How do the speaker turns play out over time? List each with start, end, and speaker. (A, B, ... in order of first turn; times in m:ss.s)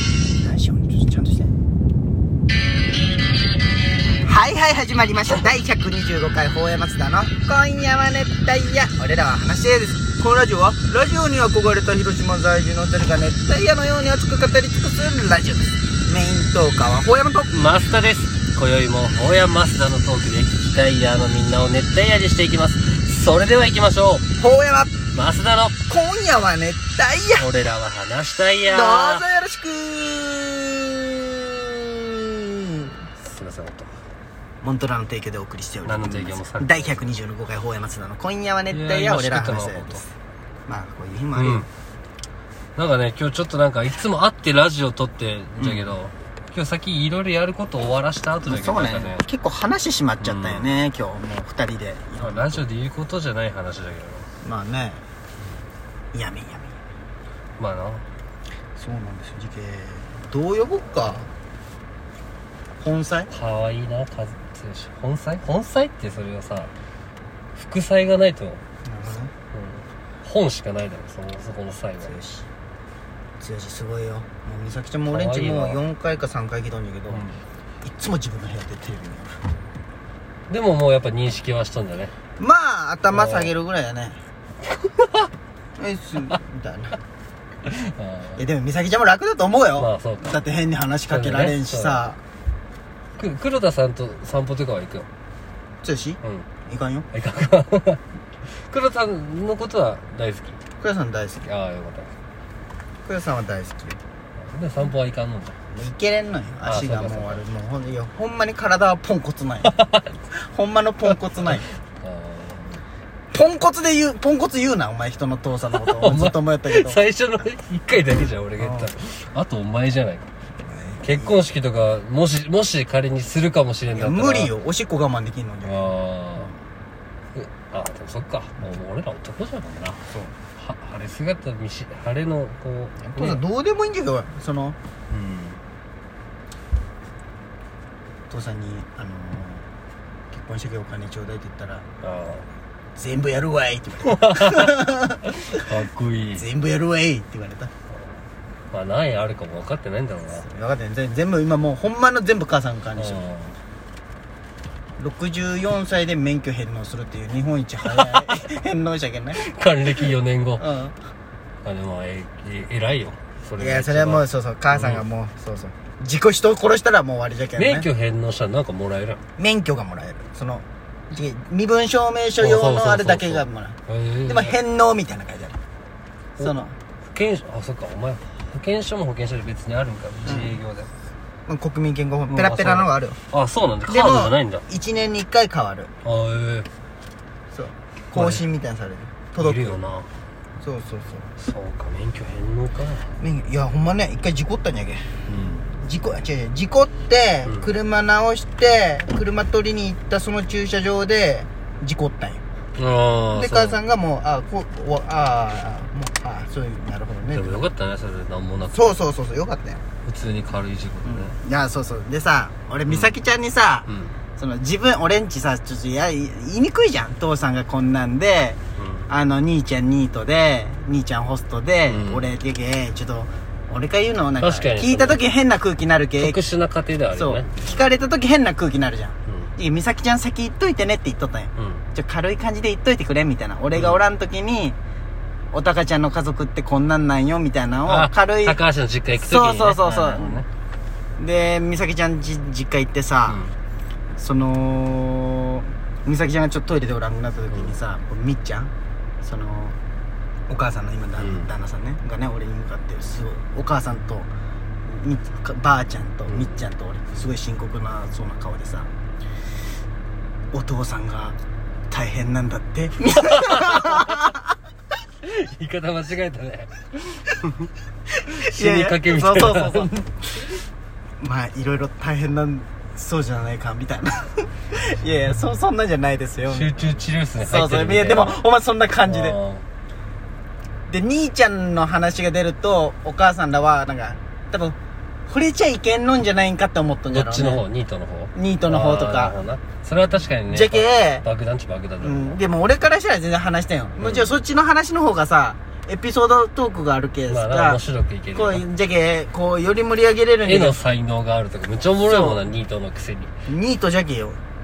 0:00.4-0:01.5 A
0:04.2-0:17.6 A
0:17.5-0:24.3 B
0:24.4-0:24.9 A
0:25.1-0:25.8 B
0:25.9-0:27.5 A
0:27.4-0:29.3 B
0:28.7-0:32.9 A
0:33.2-0:33.9 B
0:34.6-0:40.1 A
0:35.8-0:37.1 B
0:38.7-0:40.1 B
0:40.7-0:41.7 A
0:41.4-0:41.7 B
0:42.8-0:49.3 B
0:45.6-0:46.0 A
0:48.5-0:52.6 A
0:50.2-0:50.8 B
0:52.2-0:54.3 B
0:54.4-0:55.0 A
0:56.1-0:56.8 A
0:57.6-0:58.1 B
0:58.8-1:01.3 A
1:02.8-1:03.3 A
1:03.3-1:06.7 B
1:07.6-1:08.6 B
1:08.8-1:09.3 A
1:09.5-1:12.2 B
1:12.0-1:12.5 A
1:13.4-1:17.2 A
1:15.1-1:15.8 B
1:17.1-1:17.4 B
1:17.8-1:19.4 A
1:20.5-1:22.1 B
1:22.4-1:24.2 A
1:23.1-1:23.5 B
1:24.7-1:25.3 B
1:25.8-1:27.0 A
1:27.7-1:28.4 B
1:28.4-1:32.2 A
1:29.8-1:30.4 B
1:31.1-1:32.1 B
1:33.2-1:35.1 B
1:35.8-1:37.1 A
1:37.1-1:40.6 B
1:40.8-1:41.5 A
1:41.4-1:42.1 B
1:43.1-1:44.0 A
1:44.4-1:45.6 B
1:45.7-1:49.8 A
1:46.6-1:47.4 B
1:49.6-1:50.1 B
1:50.3-1:51.7 A
1:52.0-1:52.8 B
1:53.3-1:57.1 A
1:55.8-2:00.3 B
1:58.6-1:58.9 A
2:00.6-2:01.4 A
2:01.0-2:04.5 B
2:03.9-2:05.9 A
2:05.6-2:06.5 B
2:07.3-2:10.0 B
2:10.1-2:10.4 A
2:10.6-2:13.4 B
2:13.0-2:14.8 A
2:15.1-2:15.6 B
2:18.3-2:19.7 A
2:20.3-2:21.9 A
2:22.0-2:22.5 B
2:23.0-2:25.3 A
2:24.0-2:26.5 B
2:26.4-2:27.7 A
2:28.7-2:30.5 B
2:30.4-2:33.3 A
2:33.0-2:33.6 B
2:35.0-2:39.4 A
2:37.8-2:38.3 B
2:39.4-2:40.6 B
2:40.6-2:41.0 A
2:41.6-2:45.0 B
2:43.6-2:47.9 A
2:47.6-2:49.2 B
2:49.4-2:55.6 A
2:52.4-2:54.6 B
2:56.4-2:56.8 A
2:57.1-3:00.9 B
3:00.2-3:00.6 A
3:01.5-3:03.2 A
3:02.3-3:04.7 B
3:03.9-3:05.9 A
3:06.0-3:06.7 B
3:07.5-3:09.8 A
3:08.1-3:08.4 B
3:09.4-3:10.1 B
3:10.6-3:11.3 A
3:11.4-3:13.1 B
3:13.2-3:15.2 A
3:15.3-3:15.7 B
3:15.8-3:22.4 A
3:17.4-3:17.7 B
3:22.8-3:23.8 B
3:23.3-3:27.6 A
3:27.3-3:28.9 B
3:28.7-3:29.8 A
3:30.0-3:31.4 B
3:31.0-3:46.4 A
3:32.9-3:33.2 B
3:33.9-3:34.2 B
3:38.8-3:39.1 B
3:41.9-3:42.3 B
3:44.4-3:45.2 B
3:46.2-3:47.8 B
3:47.1-3:54.8 A
3:51.6-3:51.8 B
3:53.8-3:54.0 B
3:55.5-3:58.6 A
3:57.9-4:00.5 B
3:59.1-4:00.4 A
4:01.2-4:03.4 A
4:03.3-4:03.6 B
4:04.2-4:08.7 A
4:09.2-4:09.8 A
4:10.5-4:14.3 A
4:11.2-4:11.5 B
4:14.9-4:18.9 A
4:20.5-4:21.4 A
4:21.9-4:24.4 A
4:23.3-4:24.3 B
4:25.2-4:26.7 B
4:28.2-4:30.5 A
4:28.4-4:29.9 B
4:31.2-4:36.8 A
4:36.5-4:38.4 B
4:37.4-4:39.4 A
4:39.1-4:39.7 B
4:40.9-4:44.8 A
4:45.3-4:47.6 A
4:47.1-4:52.4 B
4:48.3-4:49.4 A
4:50.5-4:51.3 A
4:52.0-4:57.8 A
4:54.0-4:54.3 B
4:57.3-4:58.6 B
4:58.3-5:00.8 A
5:00.4-5:03.3 B
5:02.0-5:02.5 A
5:03.5-5:04.4 A